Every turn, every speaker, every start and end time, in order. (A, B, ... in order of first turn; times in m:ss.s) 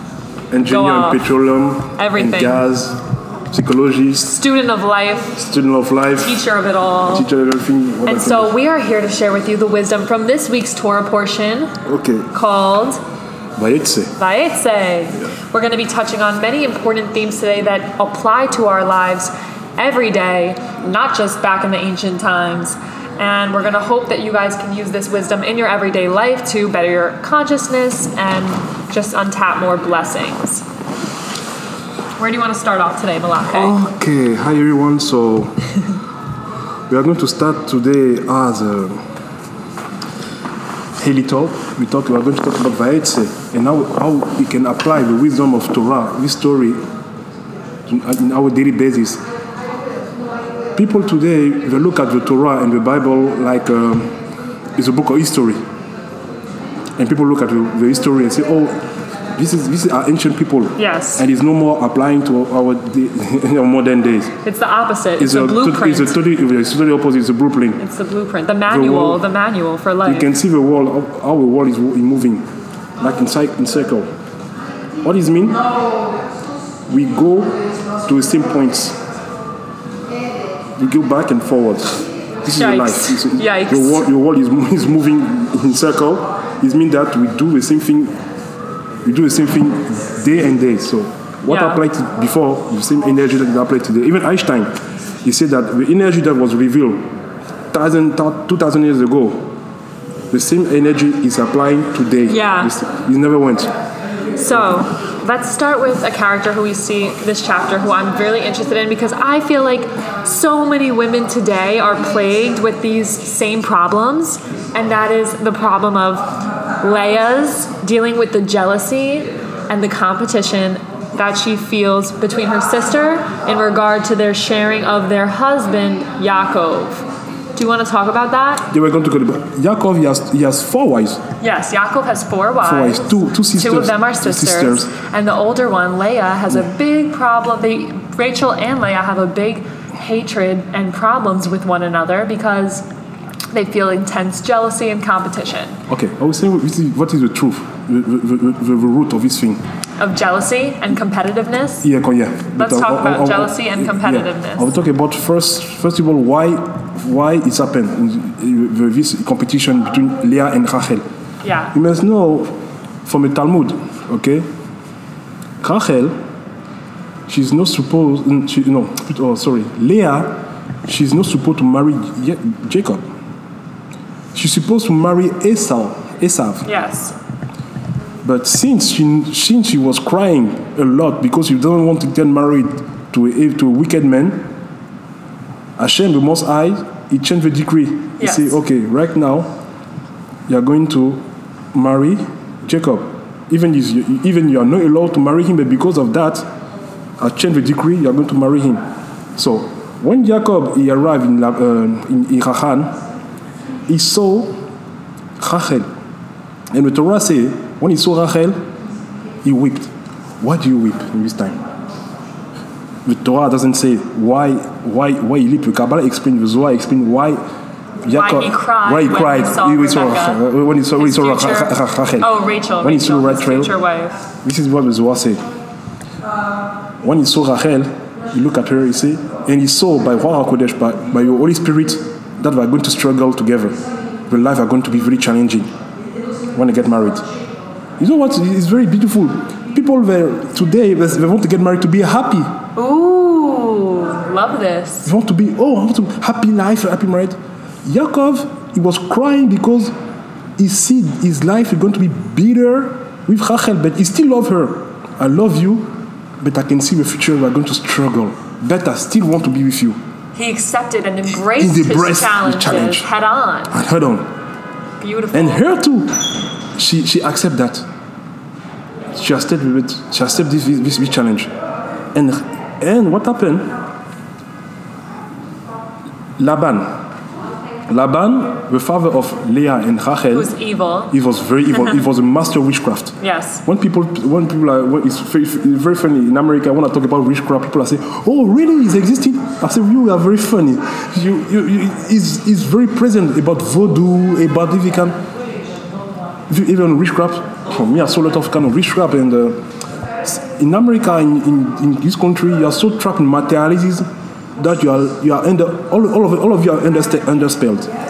0:00.5-0:04.3 A
0:00.7-0:01.2 B
0:02.0-0:02.6 B
0:04.2-0:05.3 B
0:05.3-0:06.3 A
0:06.2-0:07.3 B
0:07.1-0:08.6 A
0:08.0-0:11.7 B
0:11.8-0:12.3 A
0:12.3-0:13.0 B
0:13.6-0:14.1 A
0:14.2-0:30.6 B
0:32.2-0:33.8 B
0:33.5-0:35.6 A
0:36.9-0:39.0 A
0:41.0-0:46.8 A
0:47.9-0:49.2 A
0:50.8-0:54.1 A
0:54.8-0:55.6 A
0:57.0-0:58.8 A
0:59.4-1:04.3 A
1:00.8-1:01.2 B
1:04.4-1:06.2 B
1:05.2-1:07.8 A
1:07.8-1:10.3 B
1:08.7-1:09.2 A
1:10.0-1:12.5 A
1:13.0-1:14.1 A
1:15.0-1:15.6 A
1:16.9-1:19.0 A
1:20.8-1:28.1 A
1:22.5-1:24.1 B
1:29.0-1:37.1 A
1:31.5-1:31.8 B
1:37.7-1:39.5 A
1:40.3-1:43.7 A
1:42.3-1:42.7 B
1:44.3-2:07.0 B
2:07.6-2:08.7 B
2:08.7-2:11.2 A
2:11.4-2:22.8 B
2:12.6-2:14.9 A
2:23.5-2:25.8 B
2:25.9-2:29.6 A
2:30.0-2:31.9 B
2:31.8-2:41.0 A
2:32.6-2:34.7 B
2:41.4-2:41.7 B
2:41.7-2:44.4 A
2:45.6-2:46.1 A
2:47.3-2:53.0 A
2:54.3-2:56.6 A
2:56.6-2:57.2 B
2:58.2-3:04.5 A
3:05.8-3:09.5 A
3:08.2-3:08.6 B
3:10.5-3:11.2 A
3:11.7-3:16.5 A
3:17.2-3:18.8 A
3:19.4-3:23.0 A
3:23.9-3:24.6 A
3:25.4-3:25.9 A
3:26.7-3:28.6 A
3:29.4-3:31.6 A
3:33.0-3:37.4 A
3:38.0-3:43.7 A
3:38.1-3:40.4 B
3:41.0-3:44.2 B
3:44.4-3:45.4 A
3:47.0-3:55.7 A
3:56.5-3:57.3 A
3:58.0-4:02.6 A
4:02.8-4:05.1 B
4:05.0-4:09.9 A
4:10.6-4:20.0 A
4:20.4-4:23.8 B
4:21.3-4:23.1 A
4:23.7-4:24.3 A
4:25.0-4:25.7 B
4:25.3-4:26.2 A
4:26.7-4:27.8 A
4:29.1-4:31.5 A
4:32.1-4:33.7 A
4:36.4-4:37.0 A
4:37.9-4:40.5 A
4:40.3-4:41.2 B
4:41.1-4:55.2 A
4:41.7-4:42.0 B
4:43.2-4:43.6 B
4:56.5-4:59.6 A
5:00.2-5:04.0 A
5:04.6-5:07.9 A